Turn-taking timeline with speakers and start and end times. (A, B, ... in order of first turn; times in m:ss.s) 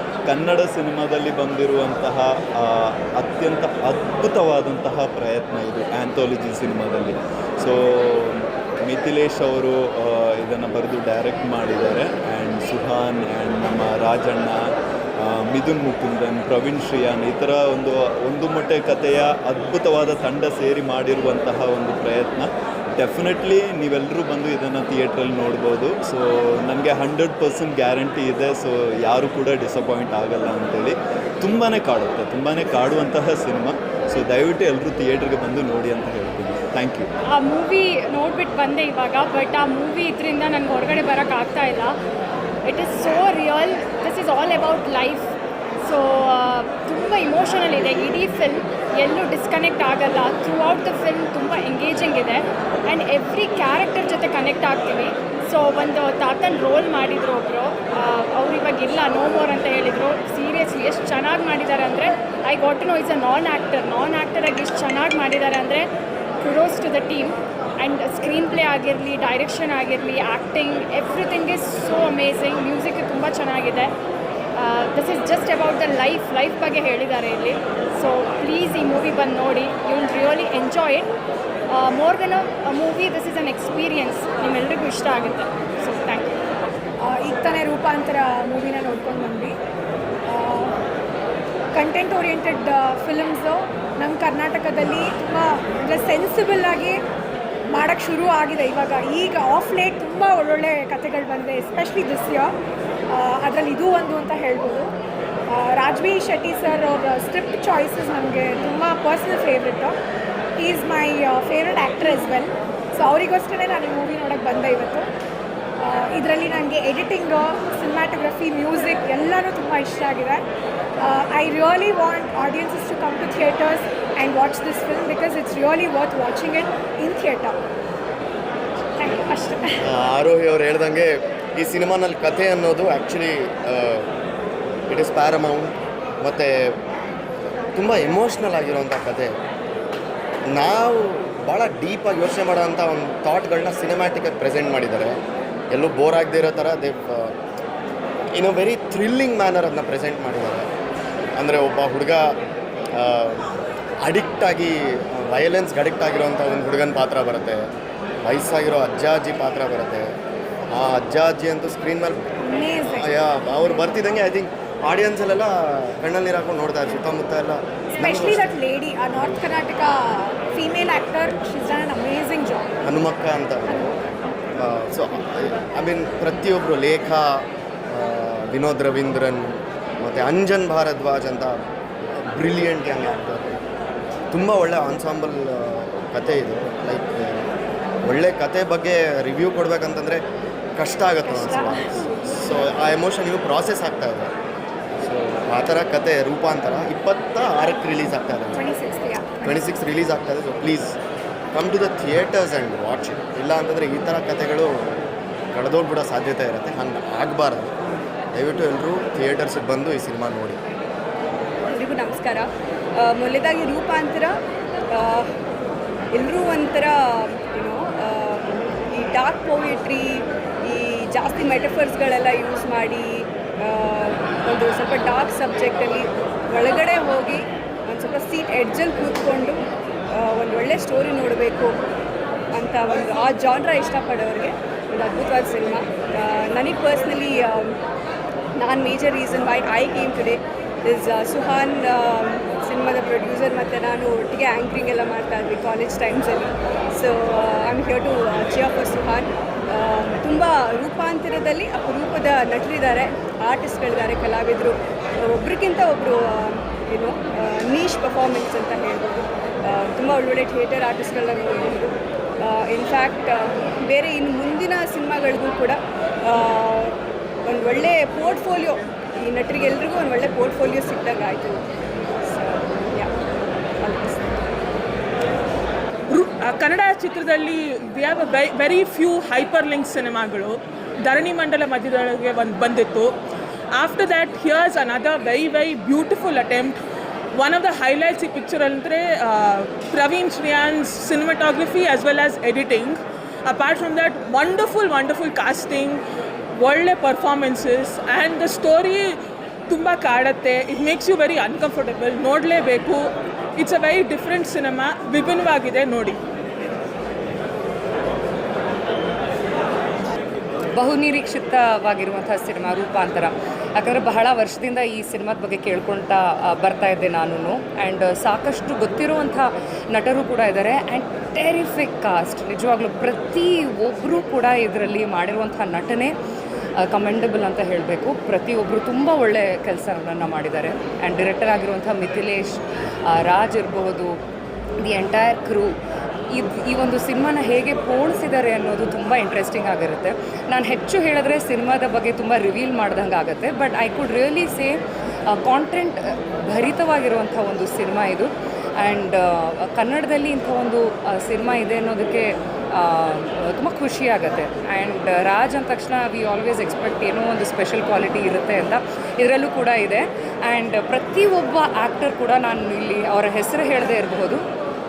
0:00.2-0:37.1 A
0:37.3-0:42.0 B
0:42.6-0:45.3 B
0:45.8-1:05.9 B
1:06.4-1:13.9 B
1:14.6-1:21.1 B
1:21.7-1:26.4 B
1:27.0-1:29.6 C
1:30.3-1:30.8 C
1:31.7-1:37.0 C
1:37.7-1:42.5 C
1:43.1-1:44.9 C
1:45.5-1:49.9 C
1:50.6-1:55.1 C
1:55.8-2:00.4 C
2:01.0-2:07.6 C
2:09.0-2:09.8 C
2:09.8-2:14.1 D
2:14.9-2:16.8 D
2:17.7-2:19.3 D
2:20.5-2:25.2 D
2:25.7-2:27.3 D
2:28.3-2:30.6 D
2:31.4-2:32.3 D
2:32.9-2:33.4 D
2:34.0-2:37.7 D
2:38.2-2:40.1 D
2:40.7-2:42.3 D
2:42.4-2:43.1 C
2:42.9-2:48.5 D
2:47.9-2:52.7 C
2:52.8-2:53.9 D
2:54.6-3:01.6 D
3:02.2-3:03.6 D
3:04.3-3:07.4 D
3:08.0-3:10.2 D
3:10.8-3:14.3 D
3:11.2-3:12.0 C
3:15.0-3:18.6 D
3:18.5-3:19.6 C
3:19.4-3:21.0 D
3:21.5-3:24.7 D
3:25.5-3:27.7 D
3:28.3-3:30.6 D
3:31.7-3:34.4 E
3:34.9-3:35.3 E
3:36.1-3:49.6 E
3:50.1-3:51.7 E
3:52.5-3:57.8 E
3:58.6-4:27.0 E
4:27.5-4:31.6 E
4:32.2-4:33.1 E
4:33.8-4:34.4 E
4:36.1-4:43.2 F
4:43.7-4:46.8 F
4:47.3-4:56.0 F
4:56.5-4:59.2 F
4:59.7-5:06.2 F
5:10.7-5:26.1 G
5:26.8-5:34.2 G
5:34.8-5:35.7 G
5:36.3-6:04.4 G